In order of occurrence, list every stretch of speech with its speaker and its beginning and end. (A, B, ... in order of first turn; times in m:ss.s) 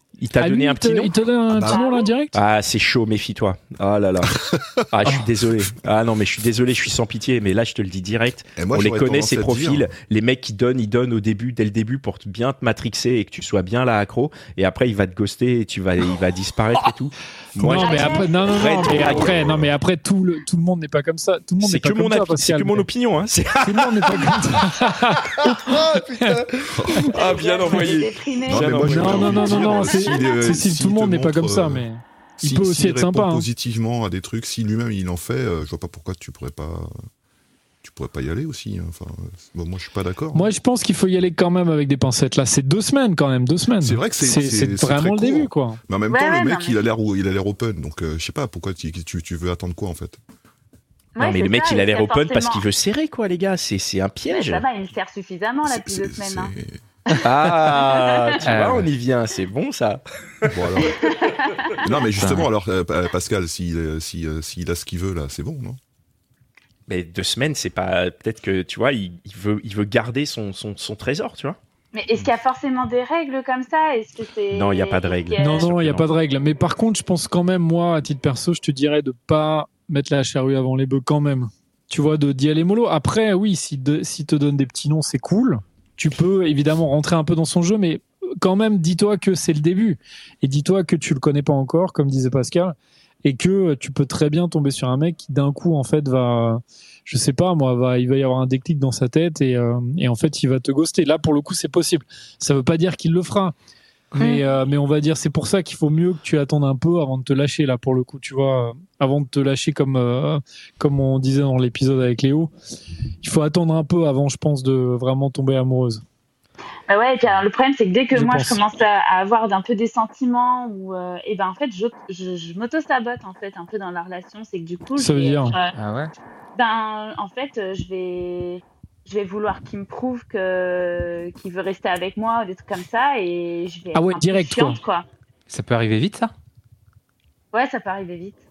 0:00.2-0:01.1 A
0:00.4-0:02.4 B
0:01.5-0:01.8 C
0:01.6-0:02.1 D
0:02.3-0:04.3 A
0:04.3-0:05.2 C
0:04.9-0:19.6 A
0:08.6-0:09.9 C
0:17.6-0:22.9 B
0:17.8-0:19.1 D
0:19.4-0:19.7 C
0:21.6-0:24.7 A
0:23.6-0:26.4 B
0:25.3-0:29.8 A
0:26.7-0:27.3 C
0:27.1-0:30.3 D
0:28.5-0:31.8 C
0:28.9-0:33.4 B
0:32.4-0:36.9 C
0:37.8-0:40.5 C
0:40.3-0:45.8 B
0:43.8-0:50.2 C
0:46.1-0:46.8 D
0:51.2-0:52.6 D
0:51.2-0:54.6 A
0:54.3-0:56.5 D
0:55.6-0:56.8 C
0:57.2-1:00.6 A
0:57.7-0:58.4 D
0:58.4-0:58.9 E
1:00.5-1:01.0 C
1:00.8-1:01.8 D
1:01.8-1:05.8 C
1:02.2-1:02.5 E
1:06.9-1:11.6 A
1:11.9-1:15.7 D
1:14.5-1:16.1 A
1:15.4-1:43.5 B
1:44.2-1:52.5 B
1:53.2-1:56.0 B
1:56.9-2:05.7 D
1:58.1-1:58.6 B
2:05.0-2:05.6 B
2:05.7-2:06.1 E
2:06.5-2:15.0 D
2:13.9-2:14.8 B
2:15.5-2:16.3 E
2:17.5-2:18.4 D